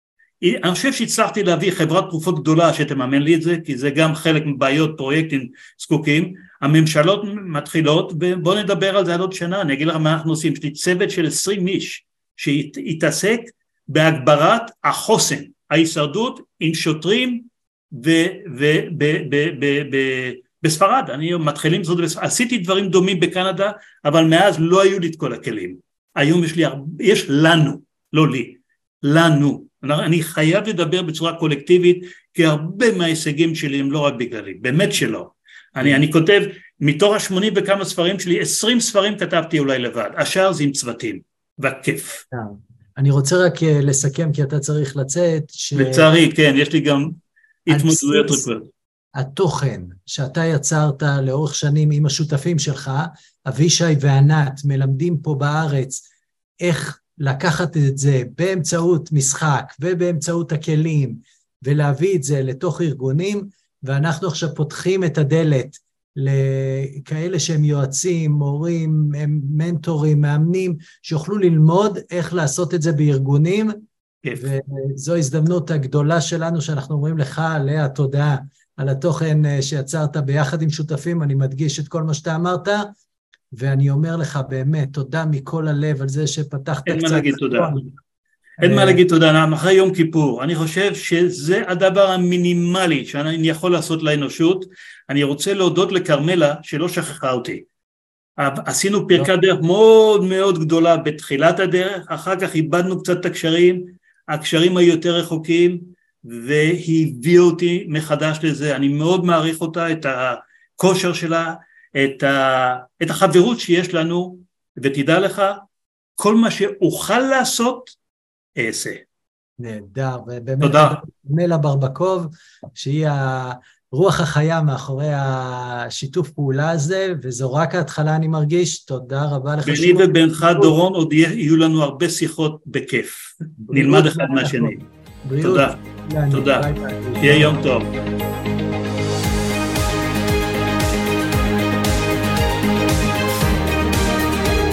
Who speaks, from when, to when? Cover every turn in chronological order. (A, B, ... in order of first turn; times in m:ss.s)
0:00.4-0:42.2 A
0:42.3-0:46.1 B
0:45.8-0:48.7 A
0:47.7-0:48.5 B
0:49.2-0:56.0 B
0:56.6-1:13.7 B
1:14.2-1:14.5 A
1:14.4-1:22.9 B
1:23.5-1:27.9 B
1:26.9-1:27.7 A
1:28.6-1:37.6 A
1:28.6-1:29.0 B
1:38.4-1:55.6 A
1:56.2-1:58.0 A
1:58.6-1:59.0 A
1:59.6-2:10.8 B
2:00.6-2:01.0 A
2:09.6-2:14.8 A
2:13.6-2:17.7 B
2:15.4-2:16.7 A
2:17.2-2:17.9 A